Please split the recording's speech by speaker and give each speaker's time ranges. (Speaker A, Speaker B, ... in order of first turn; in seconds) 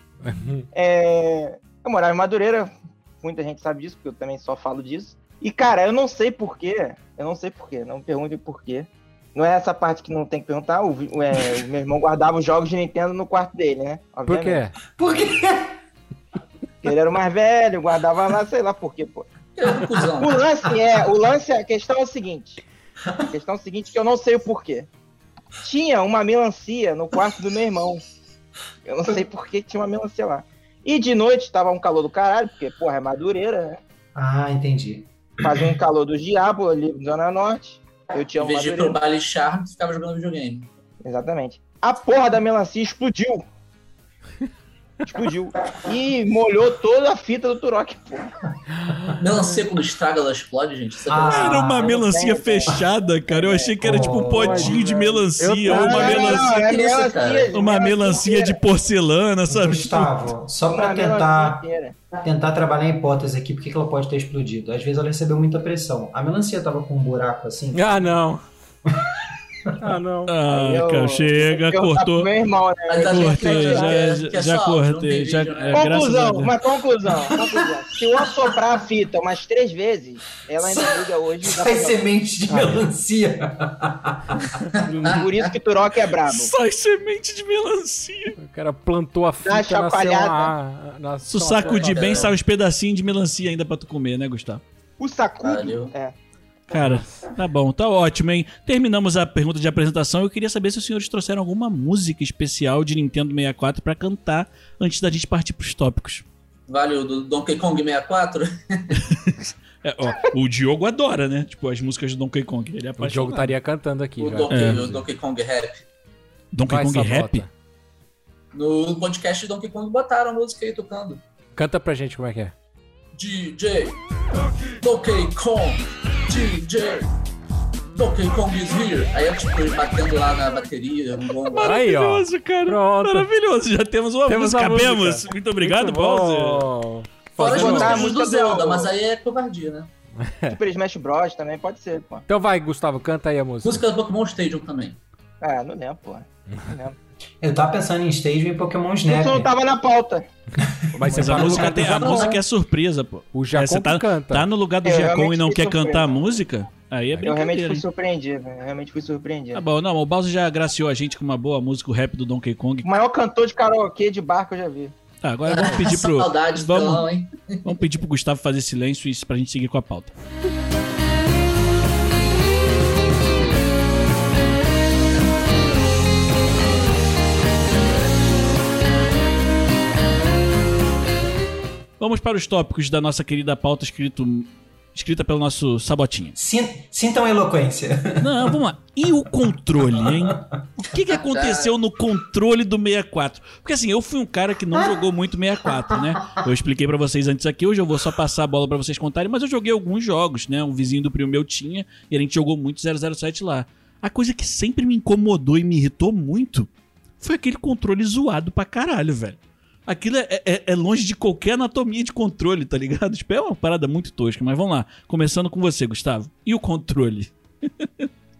Speaker A: 0.2-0.7, 14.2-14.8, 48.9-49.2, 54.4-56.2, 67.7-68.4, 69.8-70.3, 82.5-82.8, 84.7-85.2, 88.4-92.3, 96.7-97.2, 113.0-115.0, 116.6-117.5, 121.5-122.5, 131.6-133.3, 134.3-138.1, 140.2-140.6, 142.3-143.8, 150.9-152.4, 153.3-154.5
Speaker B: 0.7-14.6, 16.8-19.3, 20.2-22.6, 23.2-24.9, 25.6-28.0, 28.9-33.8, 35.4-39.0, 41.0-43.4, 45.0-48.3, 51.6-52.8, 53.3-53.8, 55.7-58.6, 60.7-62.0, 70.5-74.1, 75.7-82.0, 85.0-86.5, 89.4-90.5, 95.0-96.1, 137.4-138.9, 140.5-142.2, 145.4-146.9, 149.1-150.2, 154.8-156.1, 157.2-159.6, 162.8-164.9
Speaker C: 14.9-15.8, 34.1-35.7, 51.1-52.0, 53.8-54.8, 59.5-61.6, 62.2-68.1, 80.6-84.6, 147.4-149.5, 150.6-151.1, 186.3-188.6, 190.0-190.3
Speaker D: 19.6-20.4, 38.4-40.7, 49.2-51.5, 56.0-57.5, 72.9-76.1, 84.7-85.5, 91.6-92.3, 95.4-95.9, 106.7-109.0, 114.2-115.8, 118.5-121.2, 123.1-124.0, 124.8-127.1, 127.9-131.8, 137.4-139.9, 143.6-145.0, 165.5-167.6, 191.1-191.8
Speaker E: 51.3-56.5, 57.5-60.1, 70.2-72.3, 73.1-76.5, 86.2-88.3, 91.2-94.6, 96.7-106.2, 109.1-113.5, 114.5-114.8, 116.5-117.4, 131.5-136.7, 151.1-157.8, 159.5-162.9, 165.2-167.0, 167.6-170.1, 182.0-186.3, 188.2-217.3